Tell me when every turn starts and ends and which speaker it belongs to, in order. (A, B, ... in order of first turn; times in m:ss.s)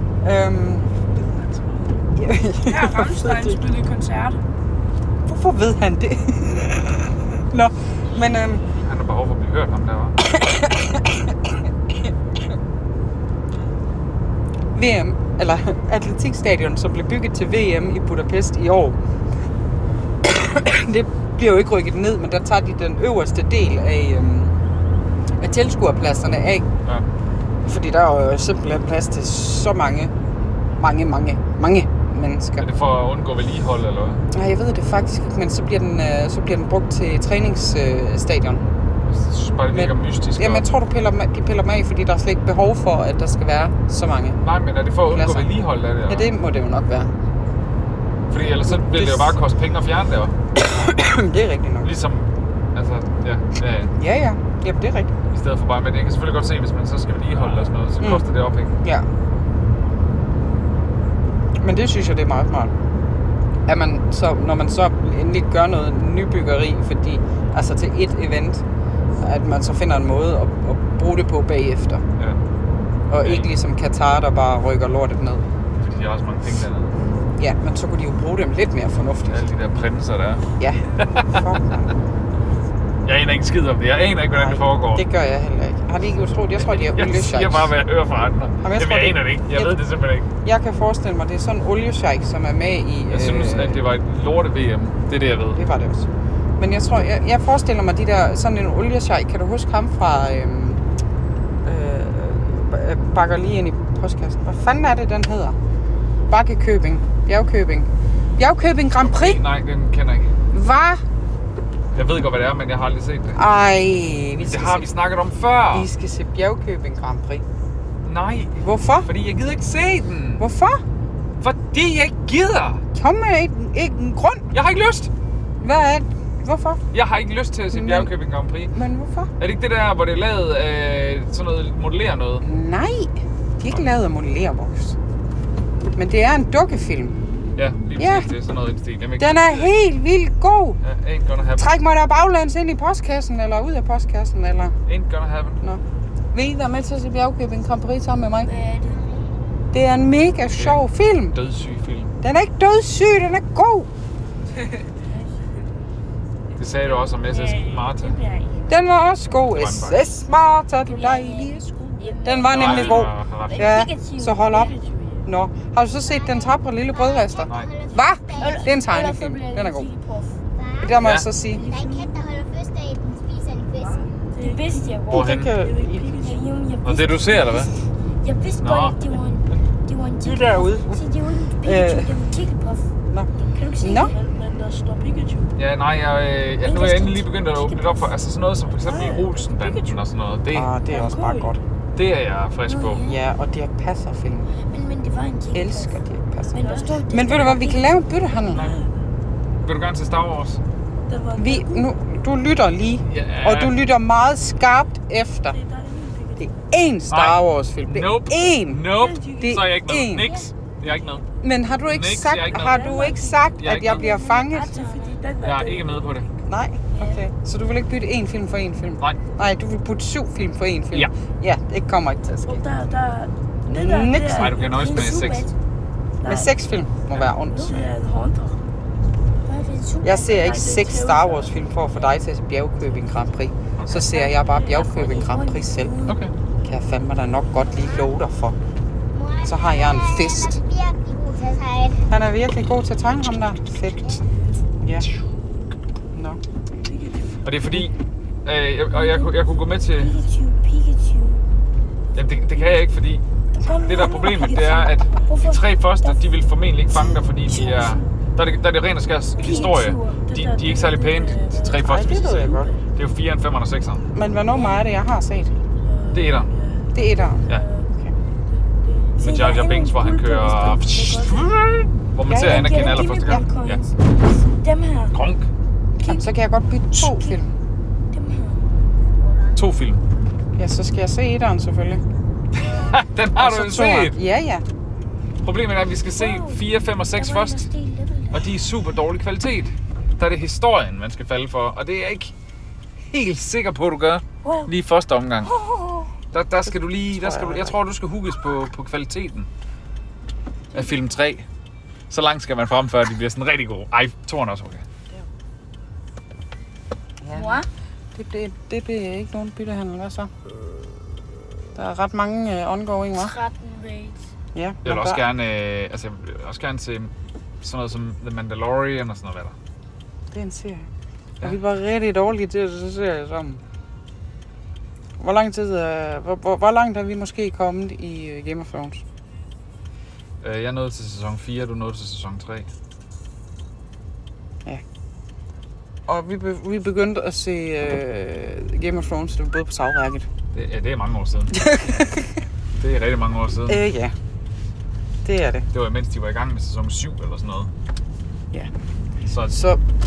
0:00.2-0:00.9 A
0:01.2-0:01.5 B
0:02.2-0:03.6 A
0:02.6-0:04.4 B
0:05.3-0:08.6 A
0:08.7-0:10.2 C
0:10.2-0:12.1 A
0:14.7-0:19.0 A
0:20.2-0:24.6 A
0:25.4-0:26.7 A
0:27.6-0:30.1 A
0:30.8-0:32.7 A
0:32.6-0:34.2 C
0:34.3-0:38.6 A
0:39.1-0:40.7 C
0:39.7-0:44.4 A
0:44.4-0:46.3 C
0:45.1-0:45.5 A
0:46.1-0:47.1 A
0:48.3-0:50.4 C
0:48.7-0:49.3 A
0:50.6-0:51.9 A
0:51.8-0:53.9 C
0:54.0-0:55.1 A
0:55.3-0:58.8 C
1:01.6-1:02.7 A
1:03.7-1:08.6 A
1:09.2-1:12.0 A
1:13.1-1:15.4 A
1:13.1-1:13.5 C
1:15.8-1:17.0 C
1:17.4-1:19.5 A
1:19.3-1:21.4 C
1:20.6-1:21.9 A
1:23.0-1:25.0 C
1:24.3-1:27.7 A
1:26.6-1:30.3 C
1:28.6-1:29.8 A
1:30.4-1:33.8 A
1:33.1-1:35.6 C
1:35.6-1:36.1 A
1:36.6-1:40.8 A
1:41.6-1:45.6 A
1:46.3-1:49.4 A
1:49.0-1:50.3 C
1:50.5-1:51.0 A
1:51.9-1:53.4 C
1:53.4-1:54.9 A
1:54.4-1:55.9 C
1:55.7-1:57.4 A
1:58.0-2:00.5 C
1:58.6-1:59.1 A
2:00.4-2:00.8 A
2:01.4-2:02.8 C
2:03.0-2:04.4 A
2:04.5-2:05.1 C
2:05.6-2:06.8 A
2:06.9-2:08.7 C
2:07.7-2:08.1 A
2:08.7-2:09.3 A
2:09.4-2:12.4 C
2:12.4-2:15.0 A
2:16.0-2:17.2 A
2:17.6-2:19.8 C
2:18.0-2:18.3 A
2:19.2-2:20.8 A
2:20.8-2:21.7 C
2:21.6-2:24.8 A
2:24.9-2:25.6 C
2:26.3-2:28.5 A
2:28.4-2:29.0 D
2:28.9-2:29.3 E
2:29.7-2:31.4 A
2:30.5-2:32.1 C
2:32.2-2:33.9 A
2:35.1-2:35.5 D
2:36.6-2:38.2 C
2:37.3-2:38.5 D
2:37.3-2:37.6 B
2:38.7-2:41.7 A
2:39.5-2:40.0 C
2:40.9-2:45.2 D
2:42.2-2:49.9 A
2:42.5-2:43.9 C
2:46.0-2:48.8 E
2:48.4-2:50.4 D
2:50.6-2:54.1 E
2:50.8-2:51.6 A
2:51.0-2:51.3 C
2:51.6-2:52.0 B
2:51.6-2:51.9 D
2:53.8-2:56.3 B
2:54.4-2:57.7 D
2:55.1-2:55.5 C
2:55.1-2:56.2 A
2:56.8-2:57.7 C
2:58.2-3:02.9 D
2:58.5-2:59.6 C
3:00.2-3:00.9 C
3:01.6-3:02.2 A
3:03.1-3:04.1 A
3:03.4-3:04.4 D
3:04.1-3:05.4 B
3:05.6-3:10.7 C
3:06.6-3:08.1 D
3:08.9-3:09.9 B
3:10.5-3:11.6 A
3:10.9-3:11.4 D
3:10.9-3:11.4 B
3:12.0-3:13.1 C
3:12.6-3:13.2 D
3:13.1-3:14.5 A
3:14.6-3:16.0 D
3:15.5-3:18.7 A
3:16.5-3:18.0 D
3:16.5-3:17.0 B
3:18.5-3:18.8 C
3:19.6-3:20.6 C
3:21.1-3:21.8 B
3:21.1-3:21.6 D
3:21.4-3:25.6 A
3:23.1-3:23.8 C
3:25.6-3:26.4 B
3:25.8-3:26.4 D
3:26.4-3:30.3 A
3:27.1-3:31.2 C
3:29.0-3:29.6 B
3:30.2-3:30.5 D
3:31.4-3:34.8 A
3:31.9-3:33.0 C
3:32.8-3:35.3 D
3:33.5-3:34.2 C
3:34.7-3:35.9 B
3:35.4-3:36.3 C
3:36.5-3:42.6 A
3:36.9-3:37.2 D
3:42.5-3:44.4 B
3:42.7-3:43.1 D
3:43.7-3:44.6 A
3:43.8-3:45.5 D
3:44.3-3:45.5 C
3:46.2-3:46.5 D
3:46.2-3:47.9 A
3:47.5-3:48.6 D
3:49.4-3:51.1 D
3:50.0-3:55.9 A
3:51.0-3:51.5 B
3:53.9-3:56.2 D
3:56.0-3:56.3 C
3:56.6-3:58.6 A
3:57.7-3:58.1 E
3:59.1-4:02.1 E
3:59.4-4:00.6 A
4:02.1-4:04.2 A
4:04.8-4:05.1 A
4:06.1-4:06.4 A
4:06.8-4:07.4 D
4:07.4-4:07.9 C
4:08.4-4:10.2 C
4:08.9-4:11.4 D
4:12.2-4:13.2 C
4:13.6-4:16.2 D
4:13.8-4:24.1 C
4:16.9-4:18.1 D
4:19.4-4:22.5 D
4:21.8-4:22.7 A
4:24.1-4:25.5 A
4:25.9-4:26.9 B
4:26.1-4:26.5 C
4:26.9-4:28.2 A
4:27.5-4:27.9 D
4:28.8-4:29.1 B
4:29.2-4:31.4 D
4:29.2-4:33.8 C
4:32.3-4:33.4 A
4:32.3-4:35.2 D
4:35.1-4:35.5 C
4:36.0-4:37.5 A
4:37.0-4:37.4 D
4:38.1-4:38.6 D
4:39.2-4:39.6 E
4:39.6-4:40.0 C
4:40.6-4:42.0 A
4:42.6-4:44.2 C
4:43.4-4:44.6 A
4:45.4-4:47.7 C
4:46.1-4:48.5 D
4:48.3-4:52.3 C
4:53.1-4:55.5 C
4:54.4-4:54.7 D
4:55.4-4:56.1 D
4:56.3-4:59.5 C
4:57.1-4:57.8 A
5:00.7-5:01.5 C
5:02.1-5:04.8 C
5:07.2-5:10.3 A
5:07.3-5:07.7 D
5:11.8-5:13.4 A
5:13.2-5:14.3 D
5:14.5-5:15.2 A
5:14.8-5:19.6 C
5:20.3-5:20.9 A
5:21.4-5:23.6 A
5:25.2-5:29.0 A
5:30.4-5:32.7 C
5:36.1-5:40.3 A
5:40.5-5:41.6 C
5:41.5-5:42.4 A
5:42.8-5:43.8 C
5:43.7-5:44.1 A
5:45.2-5:45.7 A
5:45.7-5:47.7 C
5:49.3-5:49.6 C
5:49.5-5:49.8 A